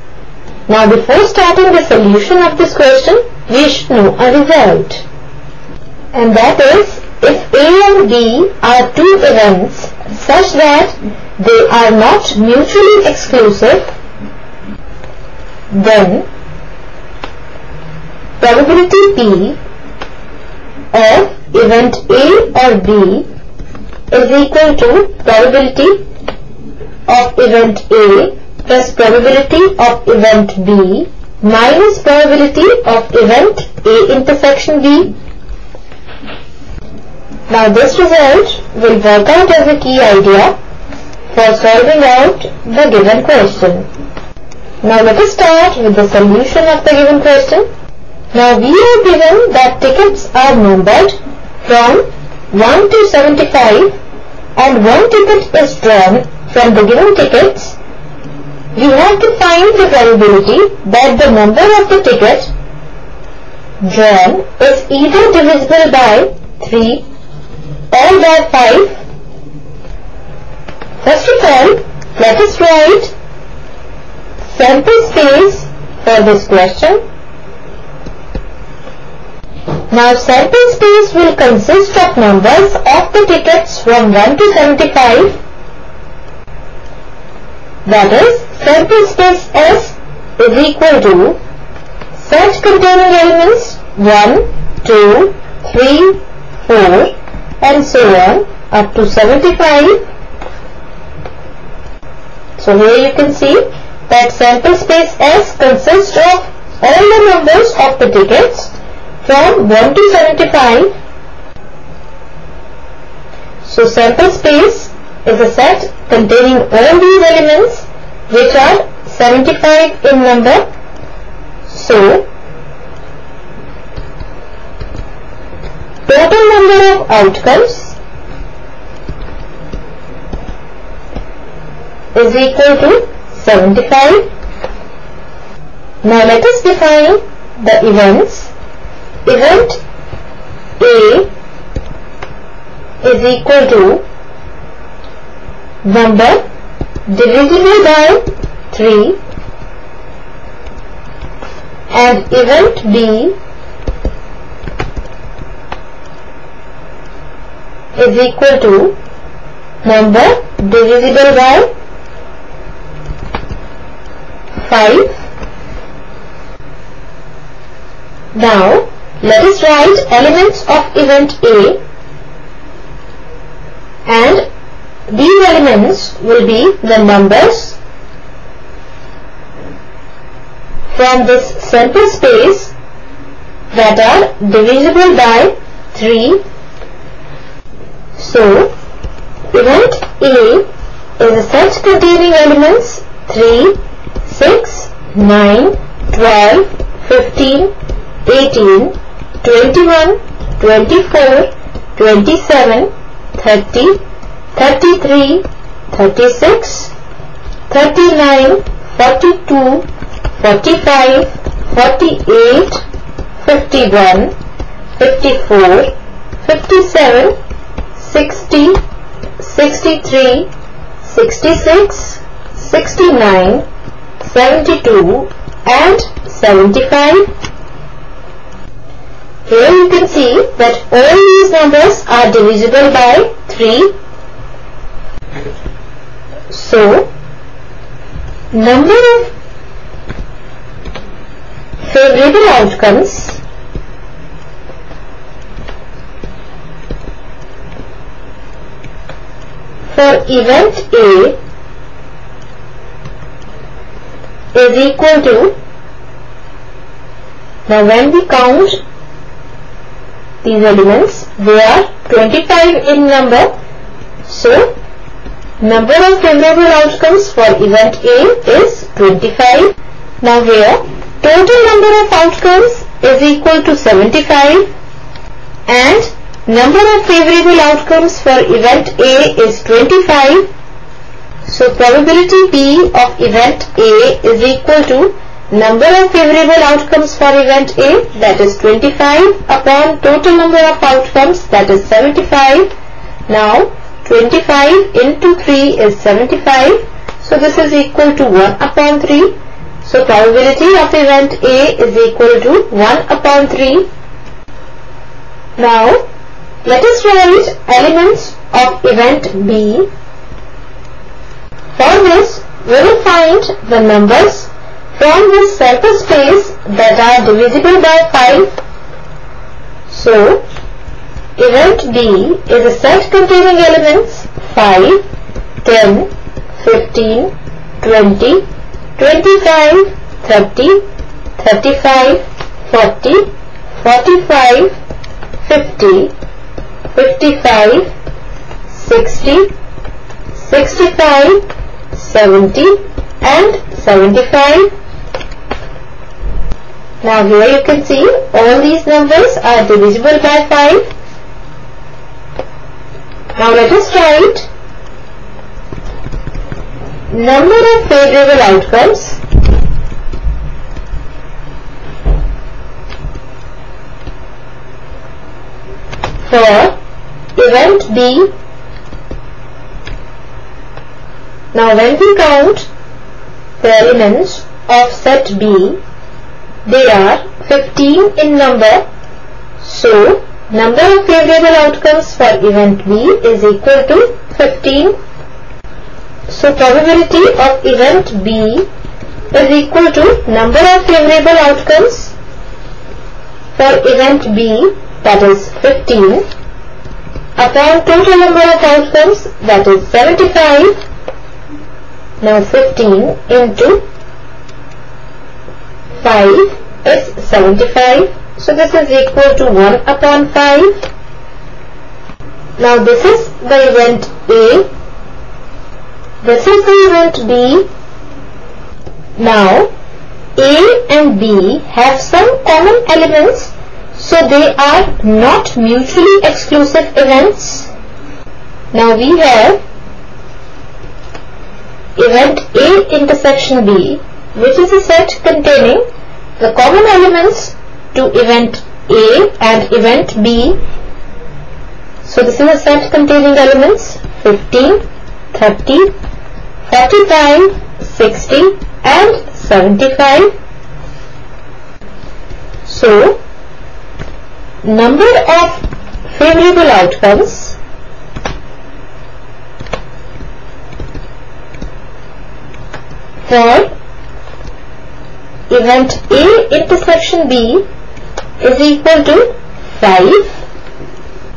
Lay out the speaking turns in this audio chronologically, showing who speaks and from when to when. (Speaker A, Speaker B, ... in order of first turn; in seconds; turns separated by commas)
Speaker A: 0.7-5.0, Speaker A: 6.1-13.8, Speaker A: 15.7-16.3, Speaker A: 18.4-19.6, Speaker A: 20.9-23.3, Speaker A: 24.1-26.1, Speaker A: 27.1-35.1, Speaker A: 37.5-40.6, Speaker A: 41.3-43.9, Speaker A: 44.8-47.7, Speaker A: 48.3-54.0, Speaker A: 54.6-57.8, Speaker A: 58.8-62.5, Speaker A: 63.8-67.0, Speaker A: 67.9-69.0, Speaker A: 71.0-73.1, Speaker A: 74.5-77.0, Speaker A: 79.9-85.4, Speaker A: 87.8-91.4, Speaker A: 92.2-100.0, Speaker A: 102.6-110.9, Speaker A: 113.6-120.6, Speaker A: 121.7-122.3, Speaker A: 126.1-128.0, Speaker A: 132.1-134.3, Speaker A: 136.0-138.5, Speaker A: 139.2-139.8, Speaker A: 140.8-141.3, Speaker A: 143.0-144.0, Speaker A: 145.8-146.4, Speaker A: 147.1-149.2, Speaker A: 151.9-153.4, Speaker A: 157.9-159.0, Speaker A: 159.8-161.7, Speaker A: 164.6-165.2, Speaker A: 168.3-171.8, Speaker A: 174.1-174.5, Speaker A: 175.1-177.8, Speaker A: 180.9-182.7, Speaker A: 183.7-186.4, Speaker A: 188.2-188.7, Speaker A: 189.5-190.7, Speaker A: 191.2-197.7, Speaker A: 198.2-204.0, Speaker A: 204.6-206.9, Speaker A: 207.7-209.9, Speaker A: 210.4-212.8, Speaker A: 213.4-214.3, Speaker A: 215.0-217.4, Speaker A: 218.0-218.8, Speaker A: 219.4-220.5, Speaker A: 221.0-223.7, Speaker A: 224.2-227.3, Speaker A: 229.5-233.9, Speaker A: 236.5-237.1, Speaker A: 238.5-239.3, Speaker A: 241.9-243.4, Speaker A: 249.9-251.4, Speaker A: 254.5-255.6, Speaker A: 257.7-258.8, Speaker A: 260.4-263.5, Speaker A: 264.2-264.8, Speaker A: 265.6-274.7, Speaker A: 275.7-280.5, Speaker A: 281.5-292.7, Speaker A: 293.3-303.9, Speaker A: 305.6-306.1, Speaker A: 306.6-309.9, Speaker A: 311.8-318.5, Speaker A: 319.9-320.4, Speaker A: 321.4-325.0, Speaker A: 325.6-328.4, Speaker A: 329.0-330.9, Speaker A: 331.4-334.8, Speaker A: 335.4-336.1, Speaker A: 336.9-337.9, Speaker A: 338.7-339.5, Speaker A: 340.4-344.7, Speaker A: 347.0-350.9, Speaker A: 353.4-354.5, Speaker A: 357.1-359.2, Speaker A: 366.3-366.8, Speaker A: 367.4-368.3, Speaker A: 371.5-372.7, Speaker A: 373.6-375.8, Speaker A: 376.6-378.9, Speaker A: 379.6-385.0, Speaker A: 386.3-388.7, Speaker A: 389.3-392.1, Speaker A: 393.6-396.2, Speaker A: 397.4-400.7, Speaker A: 402.2-403.9, Speaker A: 406.0-410.8, Speaker A: 412.6-414.7, Speaker A: 416.2-417.7, Speaker A: 419.2-419.7, Speaker A: 420.4-427.7, Speaker A: 428.7-429.6, Speaker A: 432.0-435.8, Speaker A: 436.4-440.6, Speaker A: 442.0-445.9, Speaker A: 446.7-450.3, Speaker A: 452.6-453.2, Speaker A: 454.6-457.6, Speaker A: 463.3-463.7, Speaker A: 465.5-467.6, Speaker A: 468.4-470.4